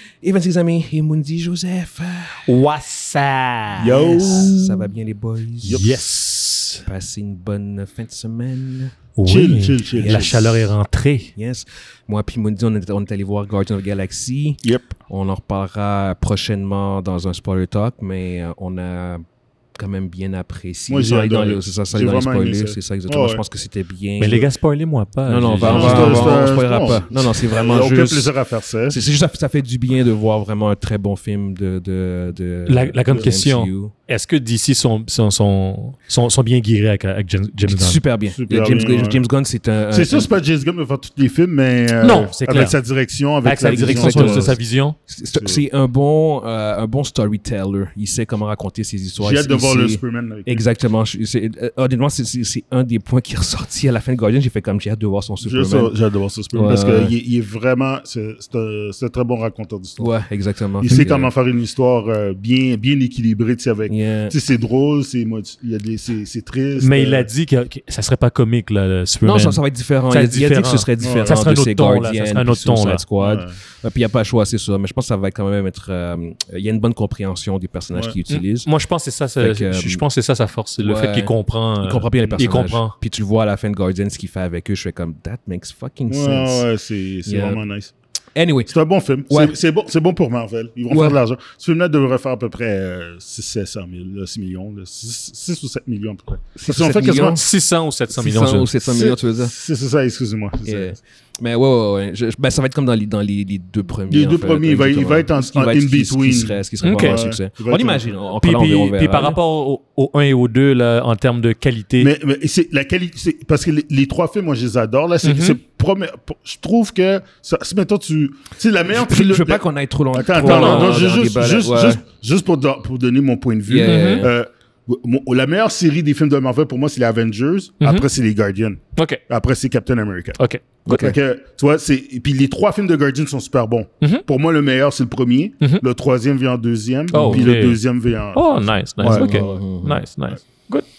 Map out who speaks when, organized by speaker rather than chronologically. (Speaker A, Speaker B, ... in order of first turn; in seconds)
Speaker A: 0.2-2.5, 4.0-5.9, 6.8-9.0, 9.9-10.6, 11.3-19.2, 19.8-24.5, 25.3-28.3, 28.9-33.9, 37.7-40.3, 43.6-44.6, 45.1-55.9, 56.5-57.1, 60.0-61.3, 63.9-64.3, 69.2-78.7, 79.4-80.0, 80.8-86.7, 87.3-87.6, 88.3-88.7, 89.3-89.5, 90.9-91.2, 96.7-97.5, 98.1-99.5, 100.7-109.4, 118.9-122.0, 123.7-124.3, 130.9-131.2, 137.1-137.5, 139.0-140.0
Speaker B: 2.5-4.5, 5.6-6.8, 9.2-11.3, 24.2-26.4, 32.7-38.0, 42.0-42.8, 43.4-45.0, 66.8-73.0, 78.3-83.0, 97.4-98.7, 106.8-107.2, 108.4-112.1, 115.2-115.6, 120.4-121.1, 123.8-124.3, 127.8-128.1, 129.0-129.2, 130.4-131.2, 137.1-137.8, 138.3-140.8
Speaker C: 3.8-4.9, 5.7-6.0, 9.2-10.6, 14.6-14.9, 20.9-23.4, 25.6-29.0, 38.3-39.2, 39.9-44.6, 49.2-50.6, 55.4-60.1, 60.8-67.3, 71.0-71.4, 73.2-73.5, 86.1-87.9, 88.7-97.4, 98.8-101.0, 104.1-108.1, 112.0-130.4, 130.9-138.5, 139.0-139.6